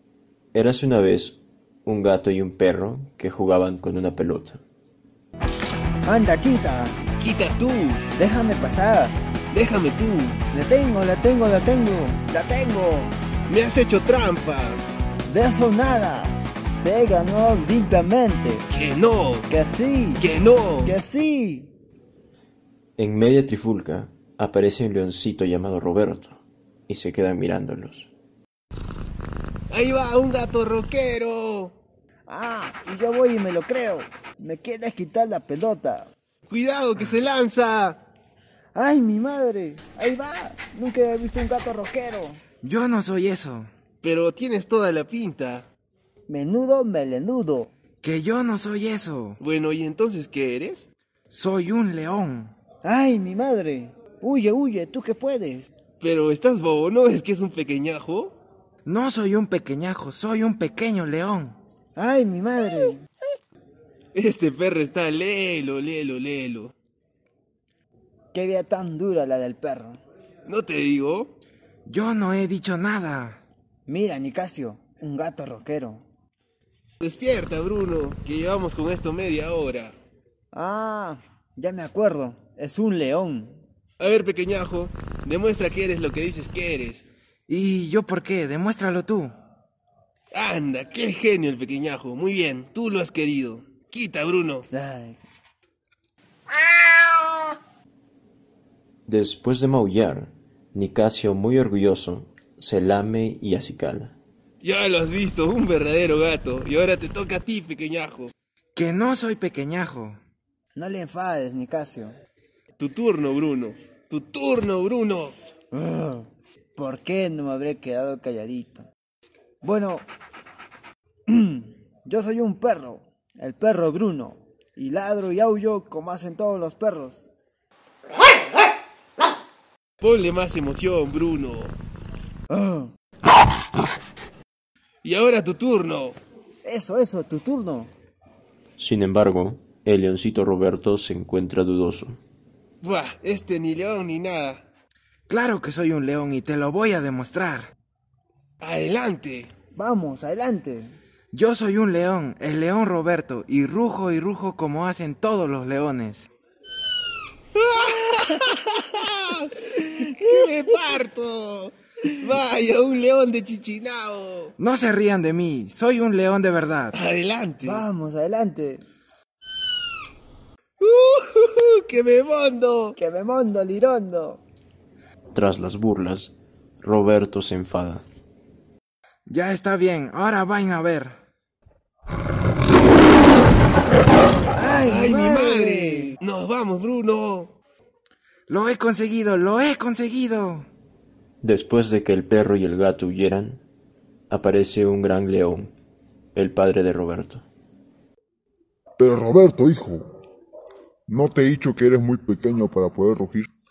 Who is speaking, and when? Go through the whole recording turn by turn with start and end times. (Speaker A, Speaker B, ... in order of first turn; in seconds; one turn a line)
Speaker A: 0.5-4.6
Speaker B: 6.0-7.0
Speaker C: 7.2-8.0
Speaker B: 8.2-9.2
Speaker C: 9.5-10.4
Speaker B: 10.5-13.1
Speaker C: 13.5-14.8
Speaker B: 15.3-18.7
Speaker C: 18.7-19.5
Speaker B: 19.5-20.2
Speaker C: 20.2-20.9
Speaker B: 20.8-21.7
Speaker A: 23.0-28.1
Speaker C: 29.7-31.7
Speaker B: 32.3-36.1
Speaker C: 36.5-38.0
Speaker B: 38.7-42.4
Speaker D: 42.6-43.7
Speaker C: 44.0-45.7
Speaker B: 46.3-47.7
Speaker D: 48.0-49.4
Speaker C: 49.4-50.9
Speaker D: 51.3-52.5
Speaker B: 52.8-55.7
Speaker C: 56.0-58.3
Speaker D: 58.9-61.6
Speaker B: 62.0-63.1
Speaker C: 64.2-66.7
Speaker B: 68.3-70.0
Speaker C: 70.5-71.3
Speaker D: 71.9-73.4
Speaker B: 73.9-76.0
Speaker C: 77.0-80.0
Speaker B: 80.5-83.6
Speaker C: 84.0-87.1
Speaker D: 87.5-89.3
Speaker C: 90.3-94.7
Speaker B: 94.7-95.2
Speaker A: 99.1-104.2
Speaker C: 104.6-108.3
Speaker D: 108.8-110.2
Speaker B: 110.8-112.2
Speaker C: 112.8-115.4
Speaker B: 115.7-118.9
Speaker B: 119.6-120.1
Speaker B: 121.3-127.3
Speaker C: 130.0-131.8
Speaker B: 132.5-132.9
Speaker C: 135.0-136.2
Speaker B: 136.6-137.9
Speaker A: 138.8-142.2
Speaker C: 142.8-144.6
Speaker D: 145.3-147.7
Speaker C: 148.6-149.5
Speaker B: 149.7-151.0
Speaker D: 151.3-156.3
Speaker C: 157.6-164.5
Speaker D: 164.6-167.0
Speaker C: 166.9-167.9
Speaker B: 167.6-168.8
Speaker C: 170.8-173.0
Speaker B: 173.0-174.4
Speaker A: 175.3-178.0
Speaker D: 179.3-181.2
Speaker B: 184.5-186.2
Speaker C: 184.8-187.5
Speaker D: 188.5-190.7
Speaker A: 191.4-193.6
Speaker A: 194.3-195.7
Speaker A: 196.3-197.4
Speaker E: 199.0-200.1
Speaker E: 201.1-203.5